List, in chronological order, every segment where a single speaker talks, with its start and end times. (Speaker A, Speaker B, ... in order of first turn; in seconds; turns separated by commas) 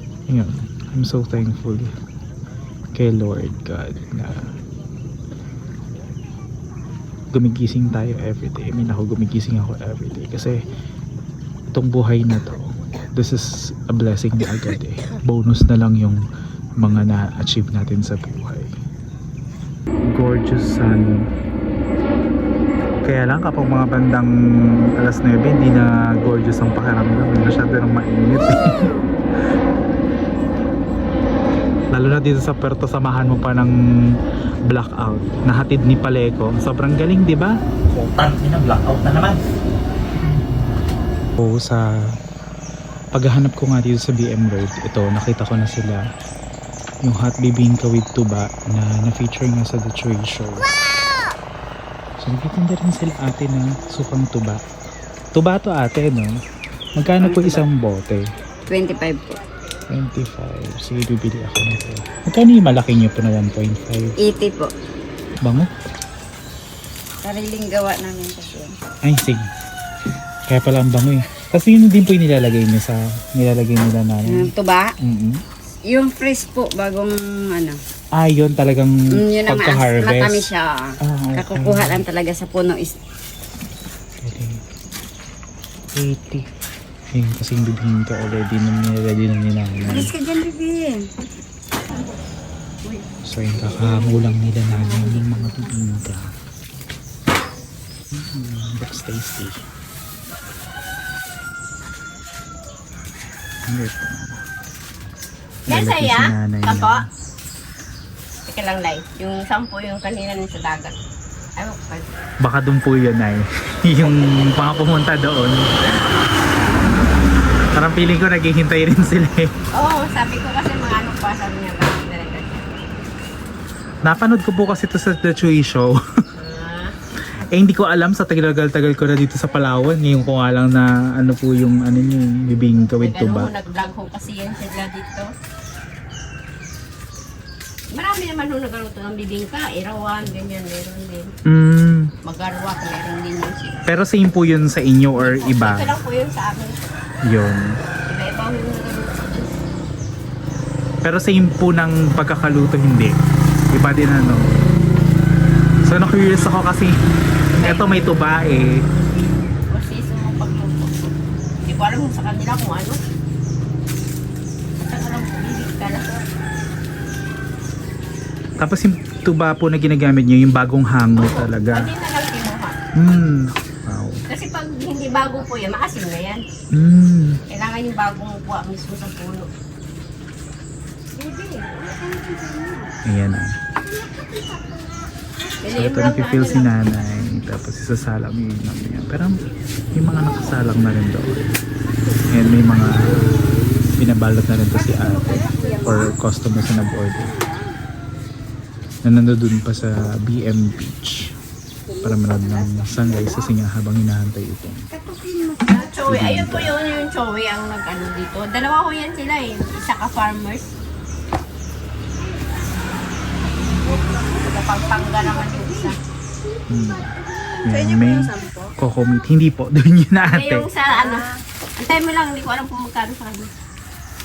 Speaker A: 0.3-1.9, Speaker A: 2.9-4.5, Speaker A: 7.3-10.6, Speaker A: 11.7-16.2, Speaker A: 16.8-18.7, Speaker A: 20.1-21.1, Speaker A: 23.0-24.3, Speaker A: 25.0-28.9, Speaker A: 31.9-33.7, Speaker A: 34.7-39.4, Speaker A: 40.2-40.7, Speaker A: 41.4-41.8, Speaker A: 43.1-46.0, Speaker A: 47.0-50.7, Speaker A: 52.2-54.6, Speaker A: 55.3-56.3, Speaker A: 57.0-58.2, Speaker B: 57.2-57.6, Speaker B: 58.7-59.4, Speaker A: 59.9-64.1, Speaker B: 64.2-64.7, Speaker A: 65.4-65.7, Speaker B: 67.2-68.7, Speaker A: 69.0-69.5, Speaker A: 70.5-74.5, Speaker B: 74.3-74.9, Speaker A: 75.0-75.4, Speaker B: 75.9-77.8, Speaker A: 78.1-80.5, Speaker B: 79.2-83.0, Speaker A: 81.0-82.0, Speaker A: 84.2-84.6, Speaker A: 86.0-86.4, Speaker A: 87.1-90.1, Speaker B: 89.8-91.0, Speaker A: 93.2-96.3, Speaker C: 93.6-95.2, Speaker A: 98.3-99.5, Speaker A: 103.7-104.4, Speaker A: 105.7-107.0, Speaker C: 105.7-107.0, Speaker C: 108.5-110.9, Speaker C: 111.6-112.1, Speaker A: 112.4-115.7, Speaker C: 114.0-114.7, Speaker A: 117.7-119.5, Speaker C: 119.7-122.7, Speaker A: 124.0-125.9, Speaker C: 126.4-126.9, Speaker A: 127.4-133.5, Speaker C: 133.0-135.3, Speaker C: 137.9-141.3, Speaker A: 141.5-142.1, Speaker C: 142.2-143.8, Speaker A: 143.9-145.9, Speaker C: 145.2-146.8, Speaker A: 147.2-147.7, Speaker C: 148.1-149.5, Speaker A: 151.0-153.1, Speaker A: 153.7-154.4, Speaker A: 155.8-157.0, Speaker C: 157.5-158.3, Speaker A: 157.5-158.8, Speaker C: 159.7-161.1, Speaker C: 161.7-163.0, Speaker C: 164.9-166.1, Speaker A: 168.6-171.9, Speaker C: 171.2-172.8, Speaker A: 172.9-174.2, Speaker C: 174.3-176.4, Speaker A: 176.7-177.4, Speaker C: 177.5-179.5, Speaker B: 181.2-182.9, Speaker A: 183.1-183.5, Speaker B: 184.2-184.8, Speaker C: 185.6-186.7, Speaker A: 185.7-189.3, Speaker A: 189.9-191.3, Speaker A: 192.3-193.3, Speaker A: 193.9-197.3, Speaker B: 194.7-196.1, Speaker B: 197.1-197.7, Speaker A: 199.0-201.3, Speaker C: 201.9-203.4, Speaker A: 202.0-204.8, Speaker B: 204.9-205.9, Speaker C: 205.7-210.7, Speaker A: 206.1-206.7, Speaker B: 212.3-213.0, Speaker B: 213.6-215.9, Speaker C: 214.2-216.0, Speaker A: 216.7-217.1, Speaker A: 217.6-220.7, Speaker C: 220.3-223.5